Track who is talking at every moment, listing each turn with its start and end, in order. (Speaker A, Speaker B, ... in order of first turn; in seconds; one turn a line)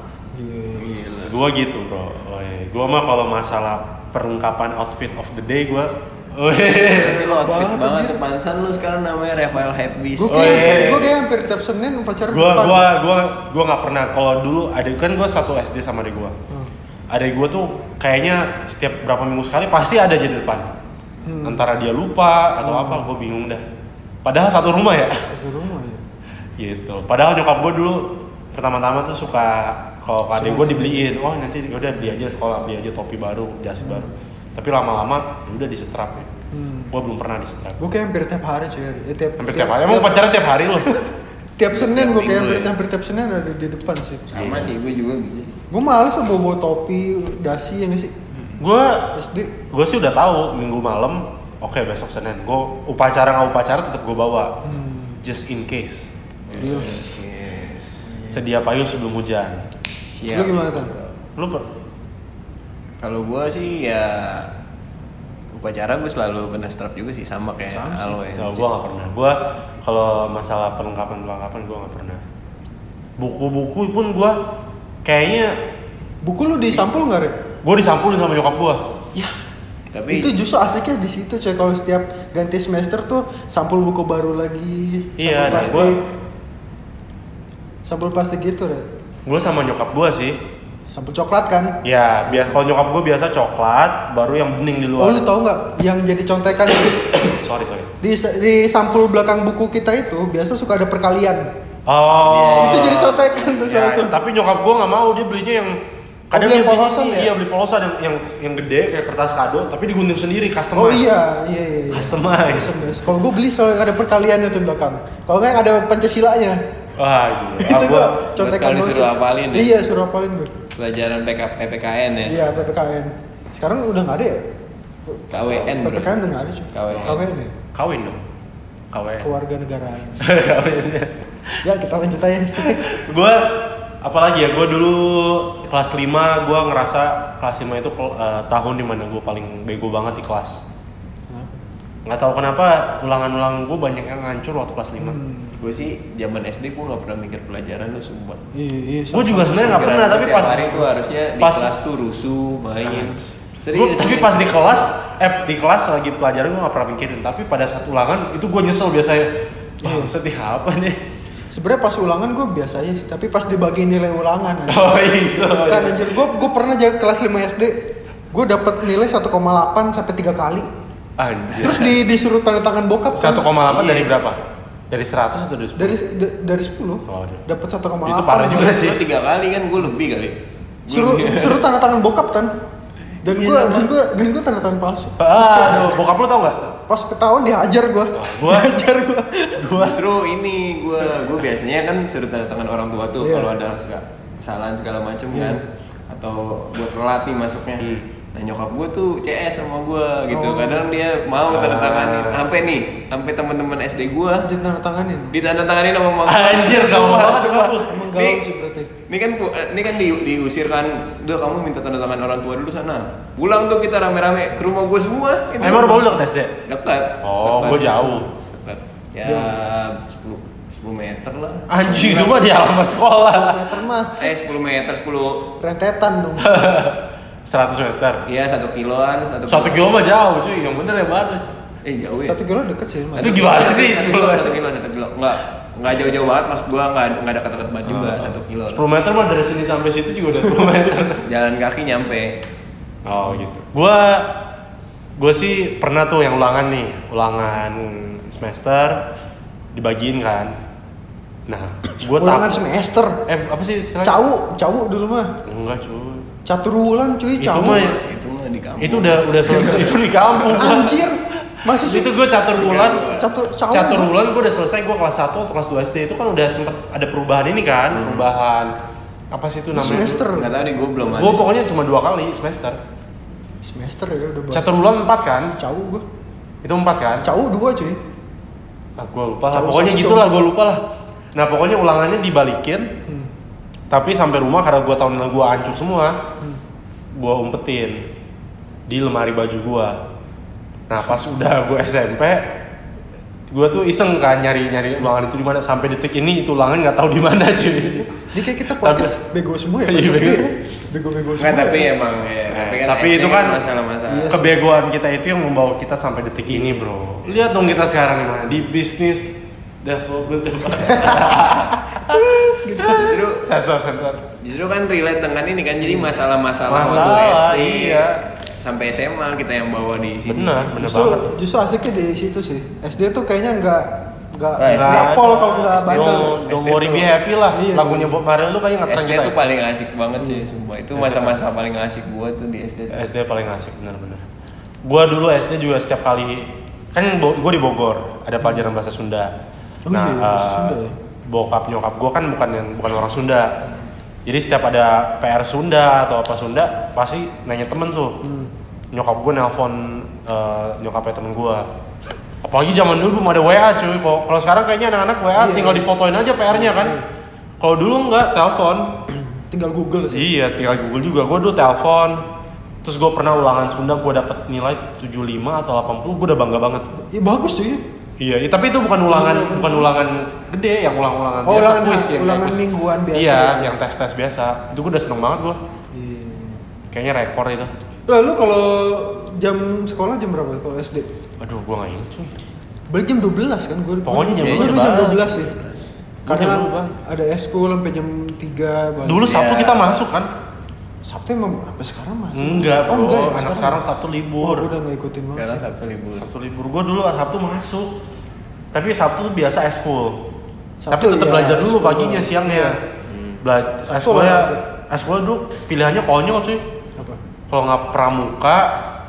Speaker A: 0.3-1.0
Speaker B: 0.8-1.4
Speaker C: 1.2-7.2
Speaker B: 6.9-11.2
Speaker A: 7.0-8.2
Speaker A: 10.2-12.8
Speaker C: 10.3-11.1
Speaker C: 12.3-16.4
Speaker C: 17.1-20.7
Speaker A: 21.2-21.6
Speaker C: 21.4-23.6
Speaker A: 22.6-23.1
Speaker C: 24.2-25.2
Speaker A: 25.3-26.0
Speaker C: 26.6-36.3
Speaker A: 30.3-31.1
Speaker A: 33.8-34.1
Speaker A: 36.5-36.9
Speaker C: 36.9-37.8
Speaker A: 37.8-40.3
Speaker C: 39.4-41.0
Speaker A: 40.8-41.1
Speaker A: 41.6-44.4
Speaker B: 41.7-42.7
Speaker B: 44.3-45.6
Speaker C: 44.4-44.7
Speaker A: 45.7-48.1
Speaker C: 48.6-49.1
Speaker A: 49.1-49.5
Speaker C: 49.7-54.5
Speaker A: 54.6-55.2
Speaker C: 55.2-57.0
Speaker B: 56.5-58.0
Speaker A: 56.6-57.2
Speaker A: 58.1-58.4
Speaker C: 58.3-59.6
Speaker B: 60.2-60.9
Speaker A: 60.3-60.9
Speaker C: 61.4-61.7
Speaker B: 63.0-64.5
Speaker B: 65.5-68.7
Speaker A: 67.7-68.2
Speaker C: 68.4-72.2
Speaker C: 73.2-74.4
Speaker C: 75.0-75.6
Speaker A: 76.2-77.4
Speaker C: 77.6-78.8
Speaker B: 79.9-80.4
Speaker A: 80.1-86.0
Speaker C: 85.2-86.0
Speaker A: 87.8-88.9
Speaker C: 89.3-90.4
Speaker A: 90.9-92.6
Speaker C: 91.8-95.3
Speaker A: 95.0-97.3
Speaker C: 97.3-97.9
Speaker A: 98.0-101.5
Speaker C: 101.9-105.8
Speaker B: 102.2-103.2
Speaker A: 102.6-104.2
Speaker C: 106.3-111.2
Speaker A: 106.3-107.3
Speaker A: 110.8-116.6
Speaker C: 111.9-112.8
Speaker C: 117.0-118.2
Speaker A: 117.6-120.6
Speaker B: 118.3-119.8
Speaker B: 120.7-122.5
Speaker A: 122.2-124.5
Speaker A: 125.1-127.5
Speaker B: 125.3-127.2
Speaker C: 126.9-127.2
Speaker C: 127.7-128.2
Speaker C: 128.9-129.3
Speaker A: 129.2-130.3
Speaker C: 130.2-131.6
Speaker A: 131.6-132.8
Speaker C: 132.6-140.6
Speaker C: 142.1-145.2
Speaker A: 145.0-145.6
Speaker B: 145.6-148.4
Speaker A: 148.5-149.9
Speaker C: 149.1-150.8
Speaker B: 149.6-154.8
Speaker C: 151.4-151.7
Speaker C: 152.8-153.2
Speaker C: 153.7-159.3
Speaker C: 159.8-161.0
Speaker A: 159.8-160.1
Speaker A: 161.5-167.8
Speaker C: 164.7-166.0
Speaker A: 168.3-170.7
Speaker C: 171.2-172.0
Speaker A: 171.5-173.5
Speaker C: 173.2-174.4
Speaker B: 173.7-174.1
Speaker C: 174.9-176.0
Speaker A: 175.8-178.8
Speaker C: 177.1-177.4
Speaker C: 178.1-179.0
Speaker B: 178.6-180.3
Speaker B: 180.9-181.6
Speaker A: 180.9-182.5
Speaker B: 183.2-183.9
Speaker A: 183.2-186.0
Speaker C: 185.2-186.8
Speaker A: 186.9-189.7
Speaker C: 188.1-188.8
Speaker C: 189.6-190.0
Speaker B: 189.8-204.5
Speaker A: 193.2-193.5
Speaker A: 195.3-195.6
Speaker C: 197.8-198.1
Speaker A: 200.3-200.9
Speaker C: 201.5-202.5
Speaker A: 204.4-205.4
Speaker B: 205.3-208.4
Speaker C: 206.2-207.9
Speaker A: 207.8-208.9
Speaker B: 209.1-222.3
Speaker C: 215.6-216.6
Speaker C: 217.2-218.3
Speaker A: 217.7-218.2
Speaker A: 219.2-219.5
Speaker C: 221.7-223.8
Speaker A: 221.9-224.2
Speaker B: 224.2-225.5
Speaker A: 225.6-226.6
Speaker C: 226.4-228.3
Speaker B: 228.3-230.0
Speaker C: 229.5-231.4
Speaker B: 231.8-232.4
Speaker A: 232.3-233.8
Speaker C: 233.2-234.6
Speaker B: 233.2-238.8
Speaker C: 237.8-241.2
Speaker B: 241.2-242.4
Speaker C: 243.1-244.3
Speaker C: 245.2-249.1
Speaker C: 249.7-250.6
Speaker C: 251.5-252.7
Speaker A: 252.2-253.2
Speaker C: 253.3-254.2
Speaker A: 254.0-255.3
Speaker C: 255.4-256.3
Speaker A: 256.5-257.9
Speaker C: 257.4-258.0
Speaker B: 257.6-260.8
Speaker C: 258.8-261.1
Speaker A: 260.6-262.1
Speaker C: 261.6-263.1
Speaker B: 262.5-263.3
Speaker A: 263.1-264.1
Speaker C: 263.7-268.7
Speaker B: 267.9-268.3
Speaker C: 269.3-270.2
Speaker A: 269.7-271.4
Speaker B: 270.3-271.5
Speaker C: 271.1-272.8
Speaker A: 273.6-275.0
Speaker C: 274.5-275.5
Speaker A: 275.6-276.1
Speaker C: 276.6-277.3
Speaker A: 277.2-278.0
Speaker C: 279.0-282.9
Speaker A: 279.5-280.5
Speaker C: 283.9-286.2
Speaker C: 287.1-288.0
Speaker C: 288.9-290.0
Speaker C: 290.9-292.5
Speaker C: 293.5-298.1
Speaker A: 297.7-301.9
Speaker C: 298.8-299.1
Speaker C: 299.9-300.5
Speaker B: 301.4-304.4
Speaker C: 302.5-303.6
Speaker A: 304.1-304.6
Speaker C: 304.3-309.3
Speaker B: 307.2-307.8
Speaker C: 309.8-314.2
Speaker A: 310.7-311.5
Speaker A: 312.0-313.2
Speaker B: 312.9-313.4
Speaker B: 314.4-320.6
Speaker A: 315.8-316.1
Speaker C: 316.7-318.2
Speaker A: 316.8-317.1
Speaker C: 320.3-321.3
Speaker A: 320.8-326.4
Speaker B: 324.6-325.2
Speaker C: 324.7-329.4
Speaker B: 325.9-327.1
Speaker A: 327.5-328.2
Speaker B: 328.9-333.0
Speaker A: 330.2-330.4
Speaker C: 330.9-331.4
Speaker C: 332.9-334.2
Speaker C: 334.9-339.3
Speaker A: 339.9-340.9
Speaker C: 339.9-343.5
Speaker C: 344.3-348.2
Speaker A: 348.2-348.5
Speaker C: 348.9-351.7
Speaker C: 352.4-357.0
Speaker A: 355.4-355.9
Speaker A: 356.5-357.0
Speaker C: 357.6-358.9
Speaker A: 359.1-360.3
Speaker C: 360.1-362.2
Speaker C: 362.8-366.9
Speaker A: 367.1-367.8
Speaker C: 368.2-372.6
Speaker A: 369.1-370.0
Speaker A: 371.4-373.7
Speaker C: 373.1-375.6
Speaker A: 375.9-376.6
Speaker C: 376.9-377.7
Speaker A: 378.1-381.1
Speaker C: 381.4-382.4
Speaker A: 382.9-385.5
Speaker C: 384.1-385.2
Speaker B: 384.4-385.8
Speaker C: 386.3-386.9
Speaker A: 386.3-389.4
Speaker C: 389.1-390.3
Speaker B: 389.3-389.9
Speaker A: 391.1-393.8
Speaker C: 392.4-394.7
Speaker A: 394.4-395.6
Speaker B: 395.4-396.3
Speaker C: 396.2-397.9
Speaker C: 398.7-400.2
Speaker A: 400.8-402.8
Speaker C: 400.9-402.8
Speaker B: 403.1-403.4
Speaker C: 403.4-406.6
Speaker A: 403.9-404.6
Speaker C: 407.5-408.8